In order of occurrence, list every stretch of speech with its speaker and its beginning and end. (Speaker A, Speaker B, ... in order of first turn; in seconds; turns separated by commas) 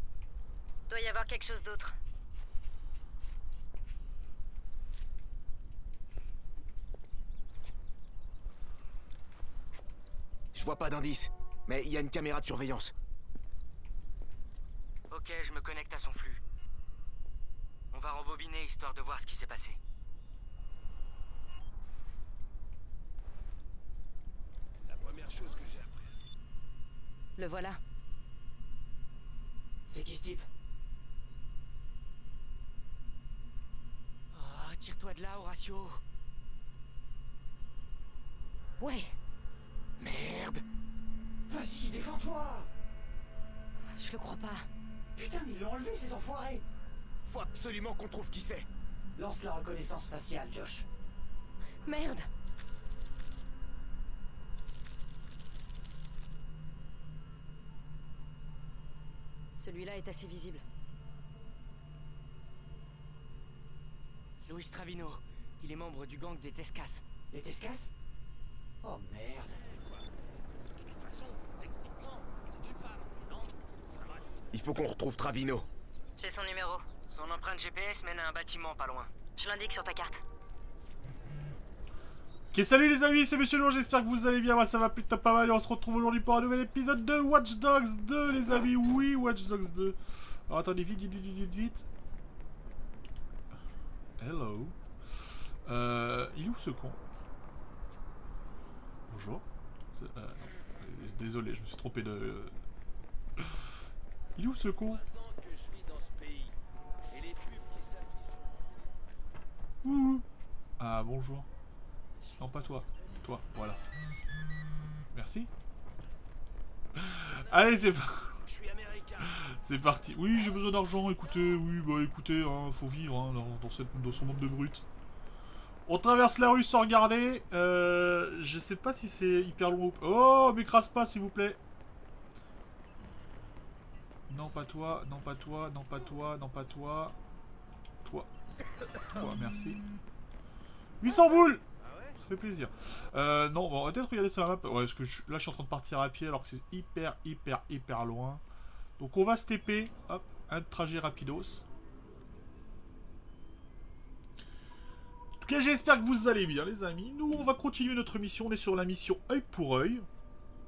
Speaker A: 0.9-1.9, Speaker B: 10.5-12.9, Speaker C: 15.1-16.4, Speaker C: 17.9-19.8, Speaker D: 24.9-26.0, Speaker A: 27.4-27.8, Speaker E: 29.9-30.4, Speaker C: 34.3-36.0, Speaker A: 38.8-39.1, Speaker B: 40.0-40.6, Speaker E: 41.5-42.7, Speaker A: 43.9-44.7, Speaker E: 45.1-46.6, Speaker B: 47.2-48.7, Speaker E: 49.1-50.9, Speaker A: 51.9-52.3, Speaker A: 59.6-60.6, Speaker C: 64.5-67.0, Speaker E: 67.3-67.9, Speaker E: 68.8-69.6, Speaker D: 70.8-74.3, Speaker B: 74.5-75.7, Speaker A: 76.2-76.8, Speaker C: 77.1-79.1, Speaker A: 79.4-80.2, Speaker F: 82.5-91.9, Speaker F: 94.2-94.8, Speaker F: 95.7-97.0, Speaker F: 99.1-99.4, Speaker F: 100.0-102.6, Speaker F: 104.4-105.0, Speaker D: 104.7-106.6, Speaker D: 107.1-109.0, Speaker F: 109.8-110.2, Speaker F: 110.8-111.5, Speaker F: 112.4-113.8, Speaker F: 115.1-115.5, Speaker F: 117.0-118.4, Speaker D: 117.1-117.9, Speaker D: 118.4-119.4, Speaker F: 119.2-124.8, Speaker F: 125.8-131.6, Speaker F: 134.3-137.2, Speaker F: 138.0-138.3, Speaker F: 139.1-139.8, Speaker F: 141.0-141.6, Speaker F: 142.2-148.4, Speaker F: 149.0-151.6, Speaker F: 155.4-160.1